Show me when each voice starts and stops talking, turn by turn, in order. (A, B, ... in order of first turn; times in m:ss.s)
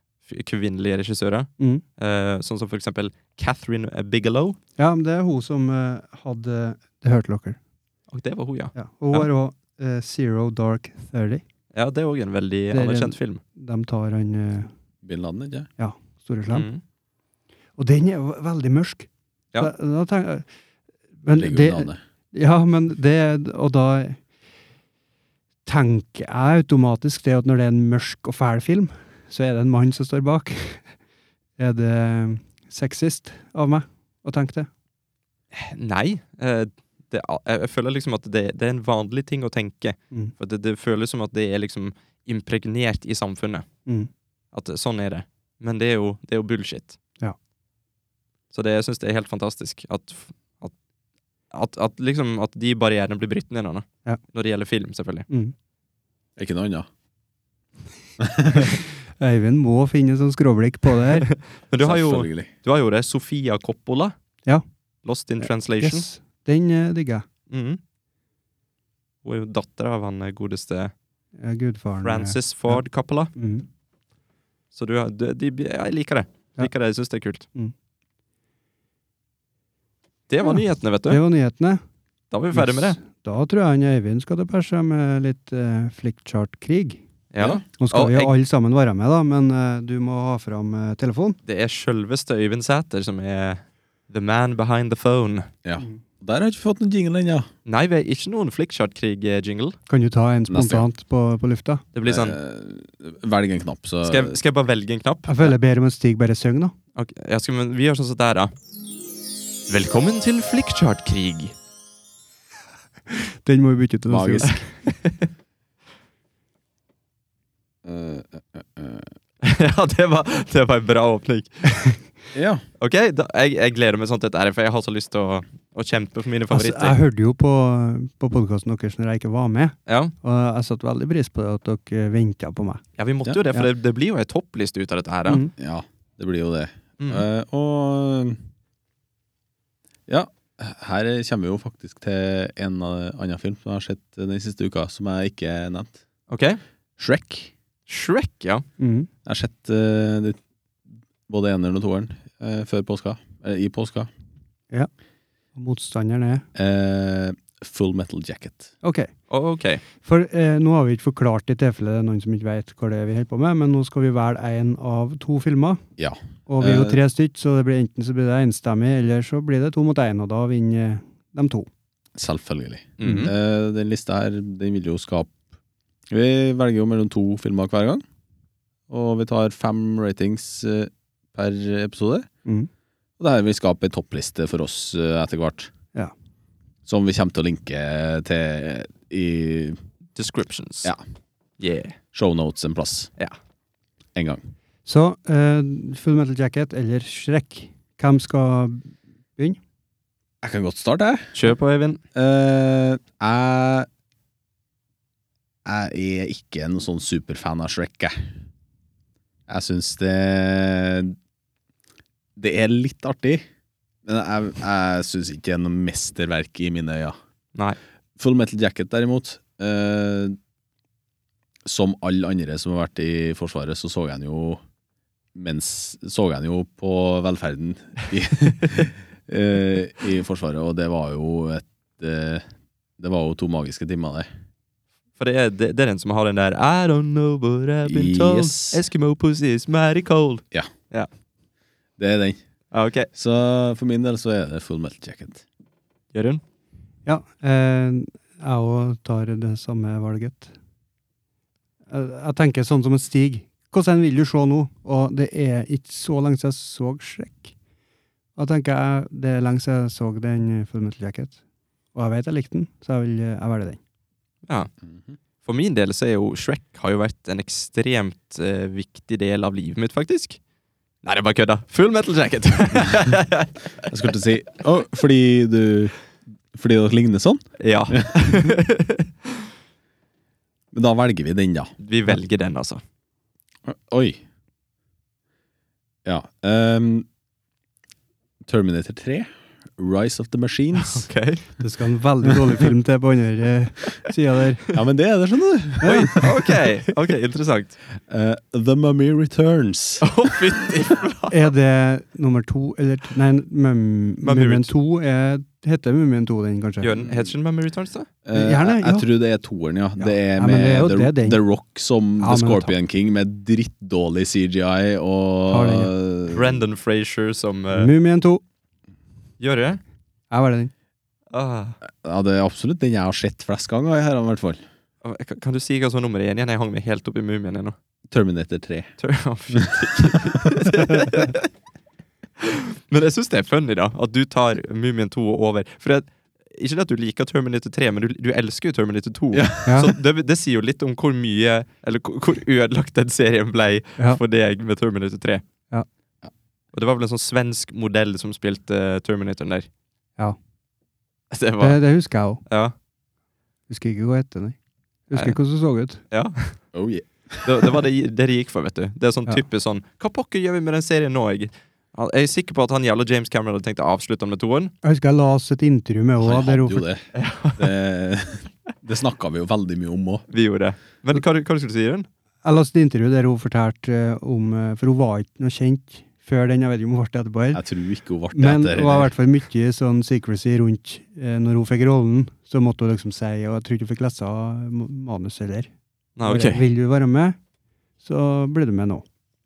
0:00.3-0:04.6 A
0:04.8-0:07.6 B
0:08.1-0:09.3 A
0:08.8-0:11.4 B
0:11.7-0:13.4 A
0:12.7-0:14.7 B
0:15.0-0:15.7 C
0:15.8-0:16.7 B
0:16.5-0:16.8 A
0:17.8-0:20.5 B
0:21.2-0:24.2 B
0:21.3-0:22.0 C
0:25.7-0:30.9 B
0:31.6-0:34.7 B
0:35.5-0:43.7 A
0:44.5-0:47.0 A
0:48.5-0:50.7 A
0:51.5-0:55.3 A
0:56.4-0:56.9 C
0:58.2-0:58.7 C
0:58.5-1:01.3 B
1:01.2-1:04.2 A
1:01.8-1:02.5 C
1:05.0-1:06.0 A
1:05.4-1:07.2 B
1:07.5-1:07.8 A
1:09.2-1:10.9 A
1:11.4-1:12.8 B
1:12.0-1:13.3 A
1:13.4-1:13.7 B
1:14.7-1:17.5 A
1:20.3-1:21.2 A
1:20.4-1:21.8 B
1:22.3-1:23.0 A
1:22.5-1:27.0 B
1:27.3-1:28.3 A
1:27.8-1:31.4 B
1:31.5-1:35.5 A
1:35.6-1:37.5 C
1:37.7-1:39.8 A
1:39.9-1:41.8 B
1:40.5-1:40.9 C
1:41.9-1:42.4 A
1:42.0-1:44.4 C
1:44.0-1:45.6 A
1:45.3-1:46.7 B
1:47.0-1:48.5 A
1:49.7-1:51.6 A
1:53.1-1:54.6 B
1:54.1-1:54.6 C
1:54.4-1:55.3 A
1:57.8-1:59.1 C
1:59.4-2:01.6 A
2:01.7-2:02.0 B
2:02.3-2:02.6 C
2:02.8-2:07.0 A
2:06.5-2:12.8 B
2:09.9-2:10.1 A
2:13.0-2:15.4 A
2:15.3-2:15.5 B
2:15.6-2:18.4 C
2:20.1-2:26.0 C
2:26.3-2:26.6 A
2:27.0-2:27.5 C
2:27.9-2:28.6 A
2:28.8-2:29.1 B
2:29.3-2:30.4 C
2:31.3-2:34.1 C
2:35.6-2:36.4 B
2:36.6-2:38.7 C
2:38.8-2:39.1 B
2:39.3-2:39.8 A
2:40.0-2:45.8 B
2:46.0-2:47.0 C
2:46.5-2:51.7 B
2:52.2-2:55.4 C
2:53.0-2:53.3 A
2:53.0-2:53.3 B
2:56.1-2:58.0 C
2:58.9-3:02.3 C
3:02.4-3:02.7 B
3:03.2-3:05.7 C
3:06.9-3:09.8 C
3:10.2-3:10.9 A
3:11.6-3:12.0 A
3:12.1-3:13.1 C
3:14.2-3:14.4 C
3:14.9-3:19.6 B
3:20.4-3:21.5 C
3:21.4-3:22.0 A
3:22.1-3:23.9 C
3:25.6-3:28.2 C
3:29.5-3:31.2 C
3:32.4-3:33.4 C
3:34.0-3:37.2 C
3:38.2-3:40.4 C
3:41.6-3:44.6 C
3:45.4-3:52.4 C
3:53.0-3:54.3 C
3:55.2-4:01.1 A
3:57.8-3:58.8 C
4:02.0-4:02.4 C
4:02.7-4:03.1 A
4:03.1-4:05.4 C
4:06.1-4:06.4 A
4:07.1-4:10.5 B
4:11.9-4:17.6 B
4:18.4-4:21.4 B
4:21.9-4:23.8 B
4:24.8-4:25.1 C
4:25.4-4:30.4 A
4:31.0-4:33.9 A
4:33.9-4:36.0 C
4:36.5-4:38.5 C
4:37.6-4:39.3 A
4:40.7-4:41.7 C
4:41.8-4:42.8 A
4:43.7-4:44.2 C
4:46.0-4:47.1 C
4:48.4-4:51.1 C
4:50.8-4:51.5 A
4:51.6-4:54.6 B
4:54.7-4:56.5 C
4:55.8-4:56.2 B
4:55.8-4:57.8 A
4:58.1-5:00.1 C
5:00.0-5:01.5 A
5:01.3-5:06.9 B
5:04.2-5:04.7 A
5:06.8-5:08.1 A
5:08.2-5:16.6 C
5:08.3-5:09.1 B
5:10.0-5:11.4 B
5:12.2-5:12.7 B
5:15.5-5:15.9 B
5:16.3-5:17.9 A
5:17.7-5:18.4 B
5:19.4-5:19.8 A
5:20.3-5:20.7 B
5:21.3-5:21.8 A
5:21.8-5:24.6 C
5:25.0-5:27.8 A
5:28.1-5:28.9 C
5:29.0-5:31.5 A
5:29.5-5:30.7 C
5:32.4-5:45.4 A
5:39.3-5:39.9 C
5:39.7-5:39.9 B
5:46.7-5:49.7 A
5:51.3-5:51.8 A
5:51.6-5:52.4 B
5:52.5-5:52.7 A
5:53.7-5:54.6 B
5:55.1-5:56.0 B
5:56.1-5:56.6 A
5:56.7-5:57.8 C
5:57.4-6:04.7 A
6:04.8-6:06.8 B
6:06.2-6:10.2 C
6:07.2-6:07.7 A
6:10.3-6:12.1 A
6:12.4-6:17.6 B
6:17.5-6:19.1 C
6:18.3-6:25.7 B
6:26.2-6:26.6 A
6:26.2-6:27.4 B
6:28.0-6:29.0 B